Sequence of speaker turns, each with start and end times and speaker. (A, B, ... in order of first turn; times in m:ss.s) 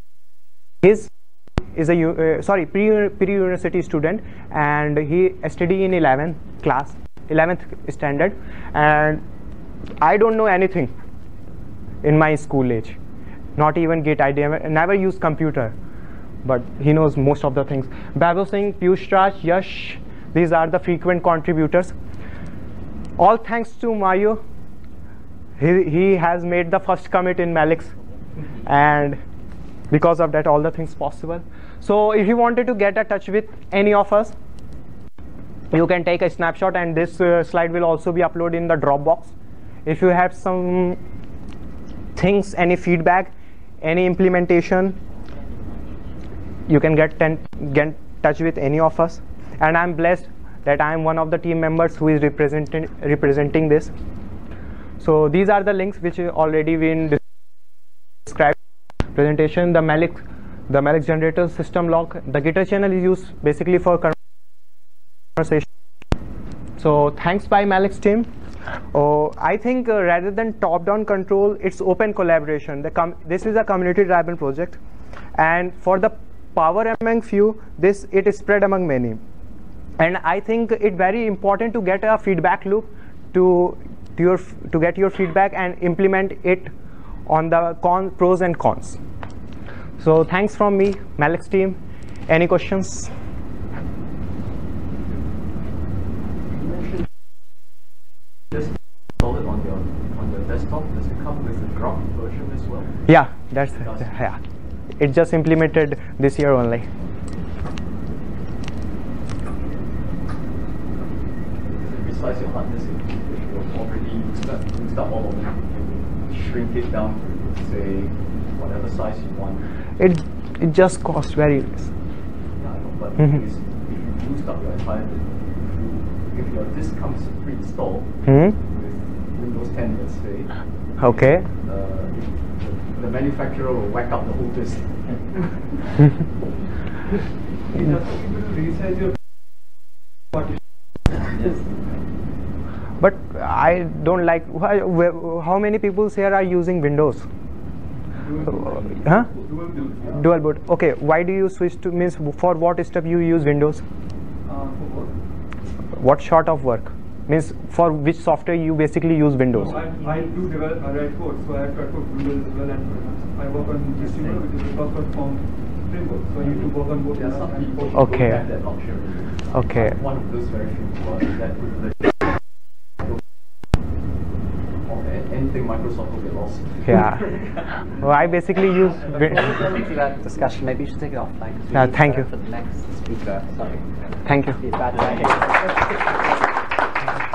0:00.8-0:01.1 A
0:01.7-0:09.2 A
0:10.0-0:10.9 A
0:12.0-0:13.0 A
0:13.6-0:15.7 A
0:16.4-0:21.9 A
0:23.2-0:24.4 A
0:25.6-0:27.9 A
0:28.6-0:29.2 A
0:29.9-0:34.3 A
0:35.7-0:39.3 A
0:39.8-0:41.0 A
0:42.2-0:43.3 A
0:43.8-0:45.0 A
0:46.7-0:53.9 A
0:55.0-0:57.2 A
0:58.2-0:58.6 A
0:59.1-1:04.2 A
1:05.4-1:05.7 A
1:06.8-1:08.3 A
1:08.9-1:14.8 A
1:15.4-1:19.2 A
1:20.0-1:26.7 A
1:27.3-1:29.0 A
1:30.0-1:33.1 A
1:36.5-1:37.1 B
1:38.5-1:43.0 B
1:43.0-1:44.4 A
1:43.8-1:44.1 B
1:45.0-1:46.9 A
1:51.6-1:59.6 B
2:00.0-2:01.9 A
2:02.6-2:15.7 B
2:08.2-2:08.6 A
2:11.0-2:11.4 A
2:17.7-2:19.2 C
2:23.0-2:27.3 A
2:28.1-2:30.2 C
2:28.9-2:29.3 A
2:30.1-2:33.8 A
2:34.4-2:35.1 C
2:35.9-2:39.8 A
2:39.5-2:48.1 C
2:39.8-2:40.4 D
2:44.0-2:44.4 D
2:46.5-2:52.3 B
2:47.9-2:48.4 A
2:49.5-2:50.0 A
2:54.8-2:57.5 B
2:56.8-2:57.3 A
2:58.0-2:59.5 A
2:59.1-3:06.2 D
3:01.7-3:02.3 A
3:04.2-3:04.6 A